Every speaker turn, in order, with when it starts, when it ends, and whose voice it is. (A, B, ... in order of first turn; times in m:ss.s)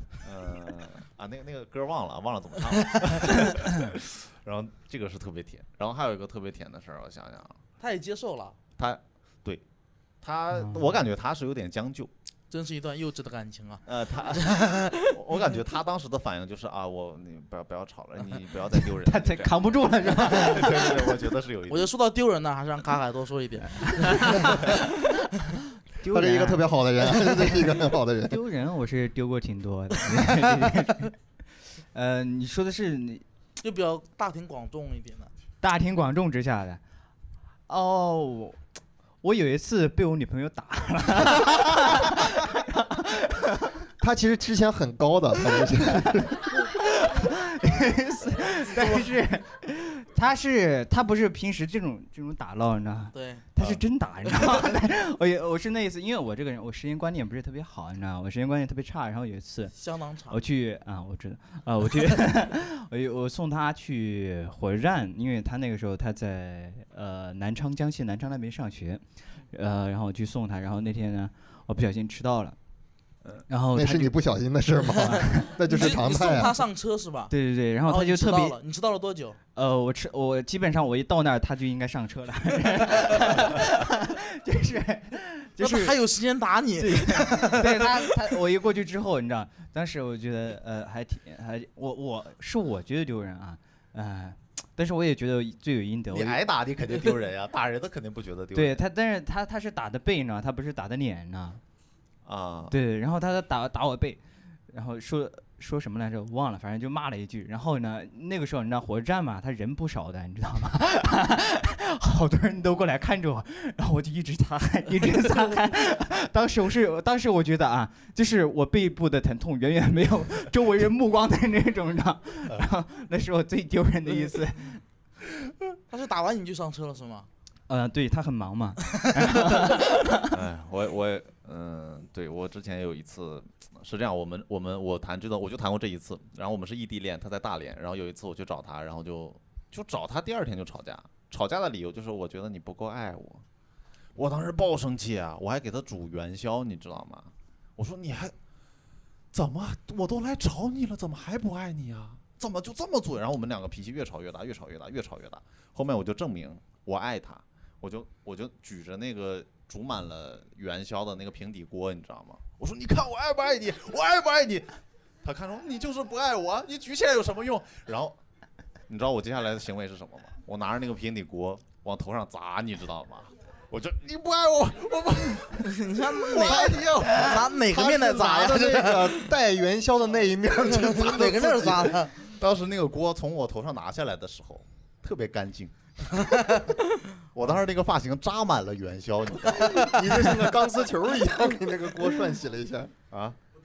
0:00.2-0:07.6 A
0:07.8-0:08.6 B
0:08.8-0:09.6 A
0:10.2-0:12.1 A
0:12.5-0:15.2 B
0:13.8-0:19.6 A
0:19.0-0:20.9 C
0:20.1-0:21.9 A
0:21.7-0:24.8 B
0:23.8-0:24.6 C
0:26.0-0:27.7 C
0:26.0-0:28.4 D
0:28.3-0:31.1 C
0:31.9-0:33.2 C
0:33.6-0:35.3 B
0:35.6-0:36.8 C
0:37.7-0:38.6 C
0:39.2-0:43.7 C
0:44.0-0:46.5 D
0:46.8-0:59.8 C
0:53.1-0:53.5 B
0:59.7-1:00.4 B
1:00.3-1:12.6 C
1:13.5-1:14.1 C
1:13.7-1:16.6 D
1:15.0-1:15.5 C
1:15.6-1:17.3 B
1:17.3-1:18.5 C
1:17.8-1:19.4 B
1:19.5-1:25.9 C
1:25.6-1:28.1 B
1:26.8-1:36.4 C
1:36.1-1:38.8 A
1:38.5-1:41.6 C
1:42.2-1:42.7 A
1:42.7-2:04.8 C
2:05.9-2:07.3 B
2:07.7-2:10.3 C
2:10.3-2:23.4 A
2:24.2-2:28.3 A
2:29.3-2:48.2 A
2:48.9-2:57.2 A
2:55.6-2:59.2 B
2:56.4-3:02.0 D
3:00.7-3:02.1 B
3:02.2-3:06.3 A
3:06.3-3:06.7 B
3:07.3-3:10.6 A
3:09.5-3:12.9 D
3:13.1-3:13.4 A